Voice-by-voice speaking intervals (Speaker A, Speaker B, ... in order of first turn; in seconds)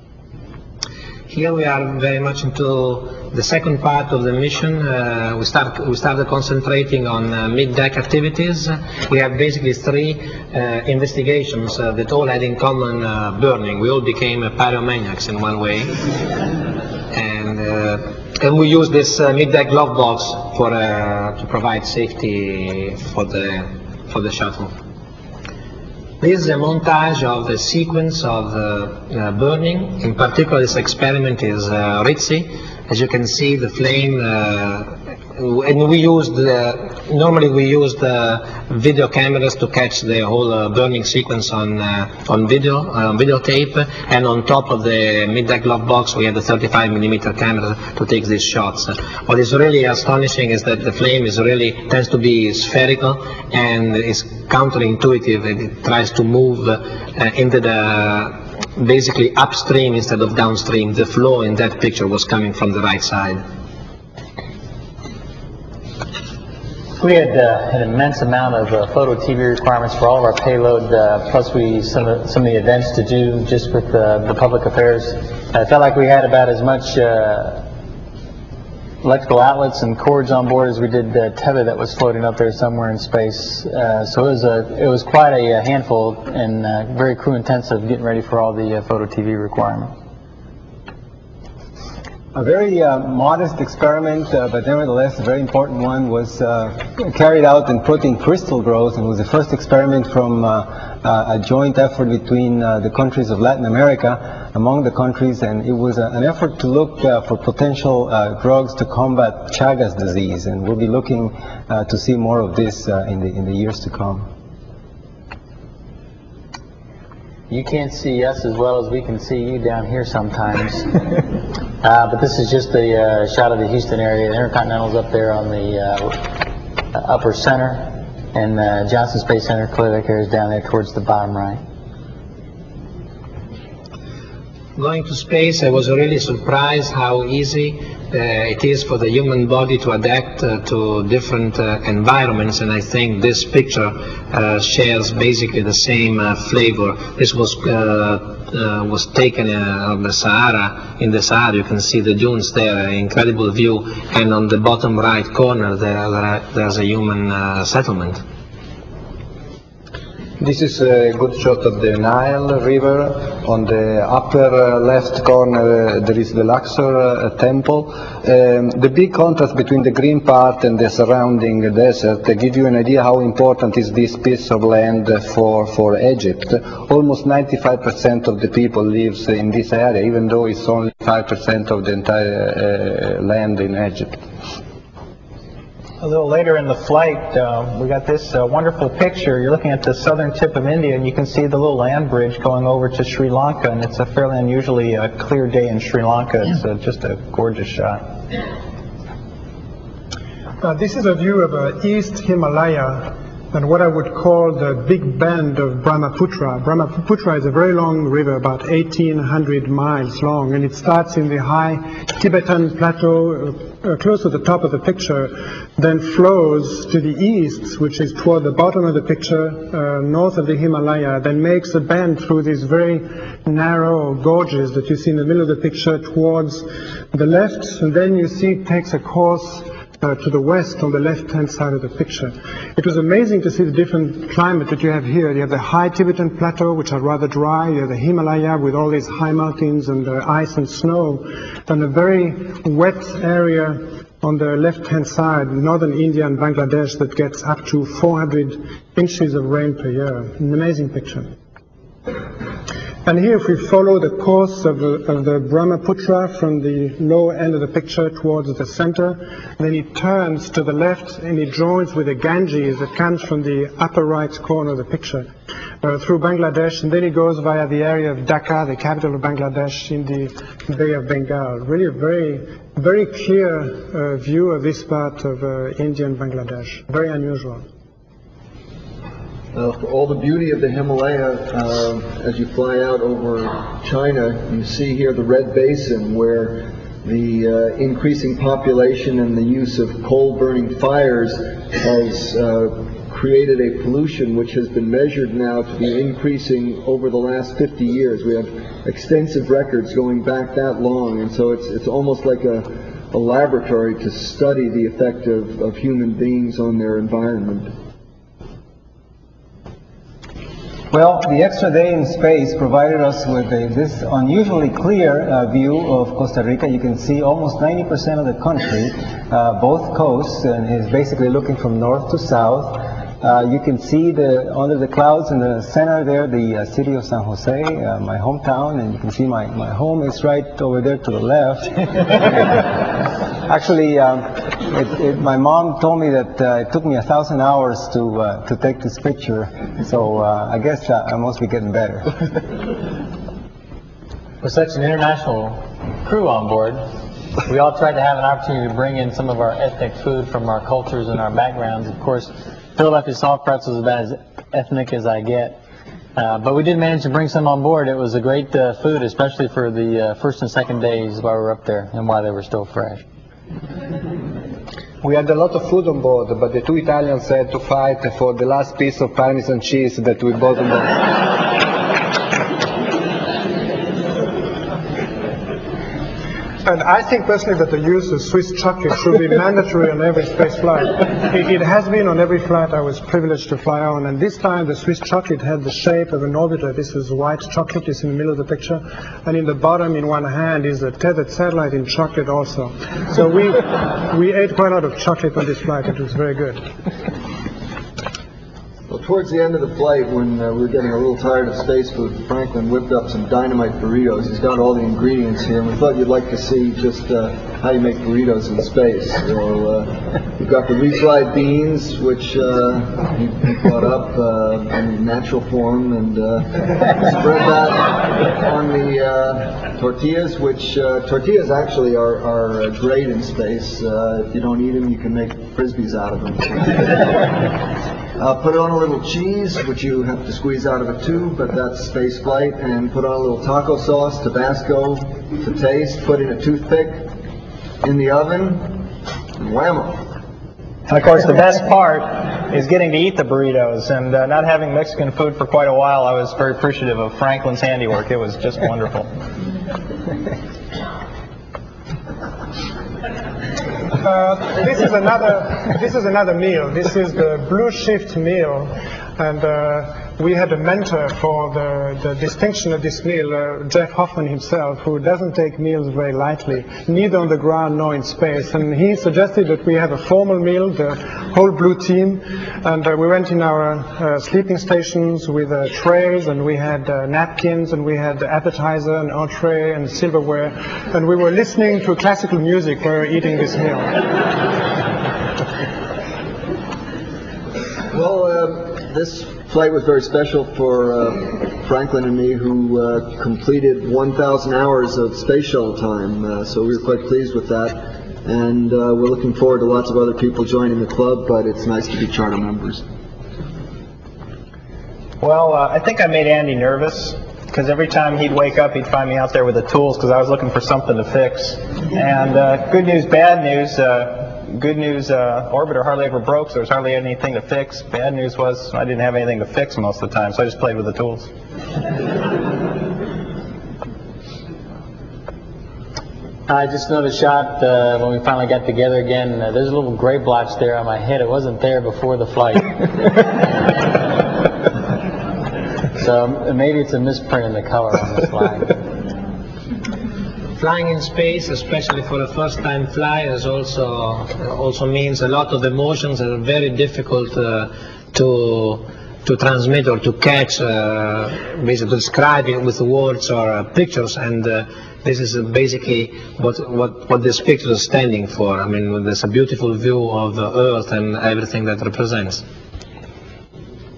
Speaker A: 1.3-16.1, 17.1-24.7, 26.2-63.4, 134.8-158.2, 540.5-562.4
Speaker B: 67.0-77.7, 79.0-89.9, 117.5-121.0, 121.8-131.6, 344.4-346.8, 347.4-355.6, 356.1-363.0, 526.5-533.2, 536.0-538.8
Speaker C: 92.3-114.3, 310.9-332.7, 333.4-342.3
Speaker D: 160.4-184.2, 365.0-371.2
Speaker E: 186.0-198.0, 440.9-449.1, 505.2-521.3
Speaker F: 200.6-251.3, 253.0-265.3, 265.8-277.6, 376.6-396.7, 454.0-484.2
Speaker G: 279.5-307.7, 398.9-427.6, 428.2-437.1, 437.8-438.8, 439.4-440.0, 487.9-502.8